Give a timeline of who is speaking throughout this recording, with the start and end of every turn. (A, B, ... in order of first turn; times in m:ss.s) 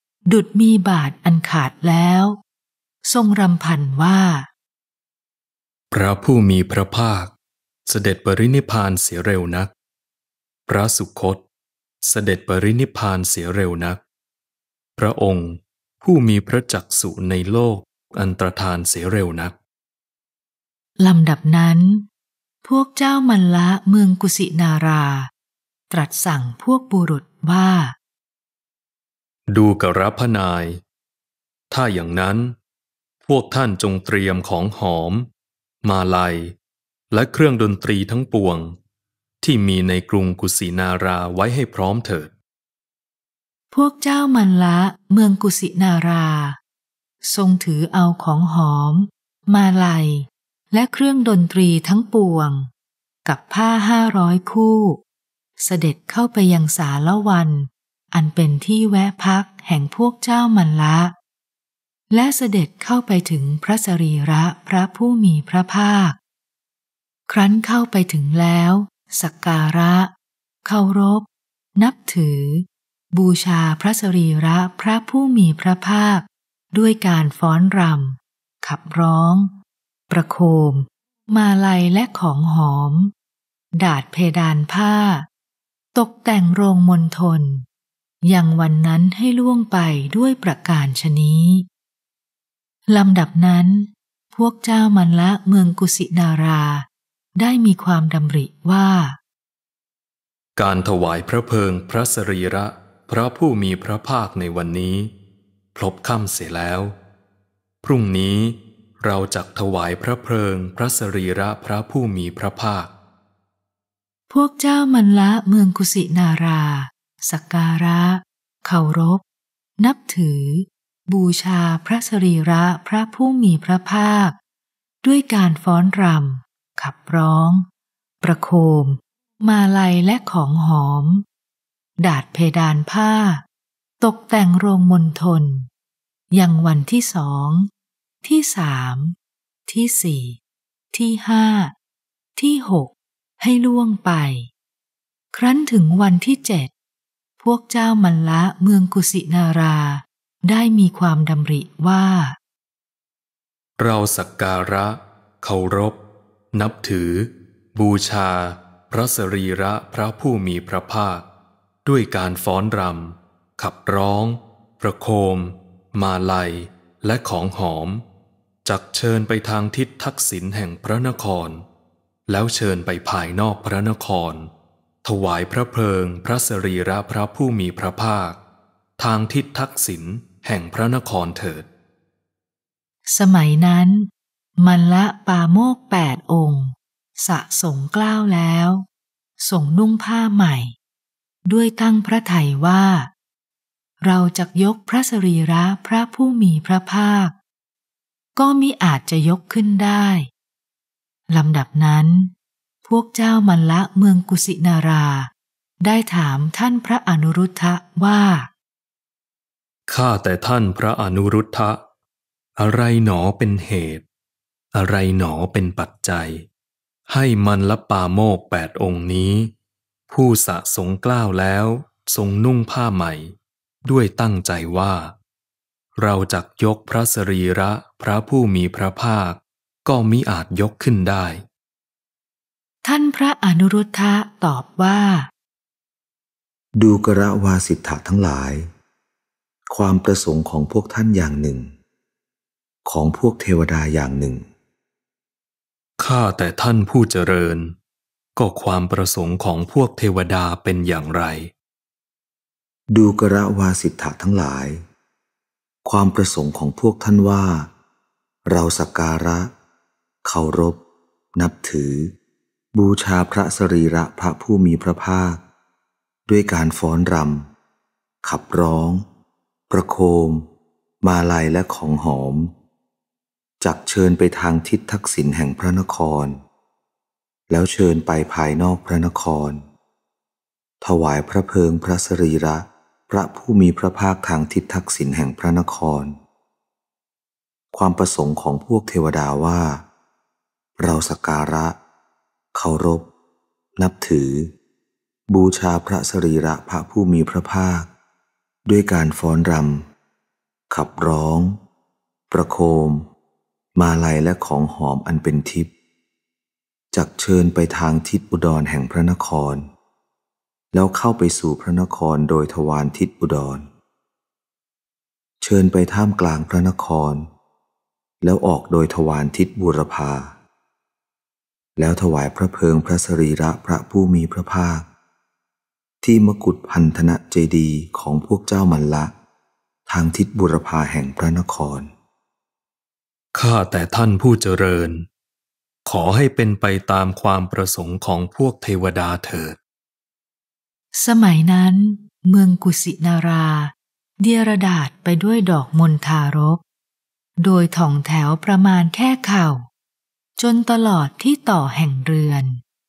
0:00.3-0:02.4 A
0:03.0-0:04.5 A
0:05.9-0:07.3 B
0:07.9-0:09.7 B
0:10.7-0:11.4 B
0:12.0-0:14.0 B
0:15.0-0:19.6 B
0:21.0-0:22.0 A
0:22.6-0:25.3 A
0:25.9-0:27.9 A
0:29.5-0:30.8 B
0:31.7-0:32.5 B
0:33.2-0:35.3 B
0:35.8-0:36.5 B
0:37.1-0:38.8 B
0:39.4-0:42.3 B
0:43.7-0:46.6 A
0:47.2-0:52.7 A
0:53.2-0:55.0 A
0:55.6-1:01.1 A
1:02.1-1:06.2 A
1:07.3-1:10.1 A
1:10.6-1:19.5 A
1:20.1-1:23.1 A
1:23.8-1:25.3 A
1:25.9-1:27.6 A
1:28.2-1:31.6 A
1:32.9-1:39.2 A
1:40.6-1:45.1 B
1:45.7-1:46.9 B
1:47.8-1:52.9 B
1:54.3-1:59.2 A
1:59.8-2:04.4 A
2:05.0-2:07.7 A
2:08.2-2:11.2 A
2:12.0-2:13.4 A
2:14.0-2:15.7 A
2:16.3-2:17.7 A
2:18.2-2:19.2 A
2:19.7-2:20.4 A
2:20.9-2:21.7 A
2:22.4-2:24.5 A
2:25.3-2:26.7 A
2:27.4-2:32.4 A
2:33.8-2:36.0 B
2:36.5-2:41.2 B
2:41.8-2:48.0 B
2:48.6-2:51.6 B
2:52.3-2:54.5 B
2:55.0-2:58.4 B
2:59.0-3:01.7 B
3:03.1-3:08.8 A
3:09.4-3:10.7 A
3:11.4-3:13.1 A
3:14.0-3:17.3 A
3:18.4-3:20.3 A
3:21.3-3:22.3 A
3:22.8-3:25.3 A
3:25.8-3:28.5 A
3:29.9-3:31.8 B
3:32.6-3:34.0 B
3:34.7-3:36.4 B
3:37.1-3:39.5 B
3:40.1-3:43.3 B
3:43.8-3:45.1 B
3:46.0-3:51.4 B
3:52.8-3:55.3 A
3:56.8-3:58.7 C
3:59.7-4:01.7 C
4:02.8-4:04.5 C
4:06.0-4:07.7 B
4:08.4-4:11.5 B
4:12.9-4:14.8 C
4:15.8-4:17.7 C
4:18.5-4:19.5 C
4:20.2-4:20.8 C
4:21.4-4:22.1 C
4:22.7-4:25.4 C
4:26.3-4:27.5 C
4:28.2-4:29.0 C
4:29.7-4:30.4 C
4:31.0-4:32.5 C
4:33.6-4:36.4 C
4:37.5-4:39.6 C
4:40.8-4:46.2 C
4:47.7-4:49.8 C
4:50.8-4:51.7 C
4:52.5-4:53.1 C
4:53.8-4:54.5 C
4:55.3-4:57.9 C
4:58.6-4:59.9 C
5:00.7-5:01.6 C
5:02.3-5:03.0 C
5:03.8-5:05.7 C
5:06.9-5:09.6 C
5:10.7-5:13.7 C
5:15.4-5:17.3 C
5:18.2-5:20.3 C
5:21.8-5:24.8 C
5:26.0-5:29.1 C
5:29.9-5:31.9 C
5:33.3-5:35.0 B
5:35.8-5:39.6 B
5:40.9-5:46.6 A
5:47.4-5:49.7 A
5:50.4-5:52.6 A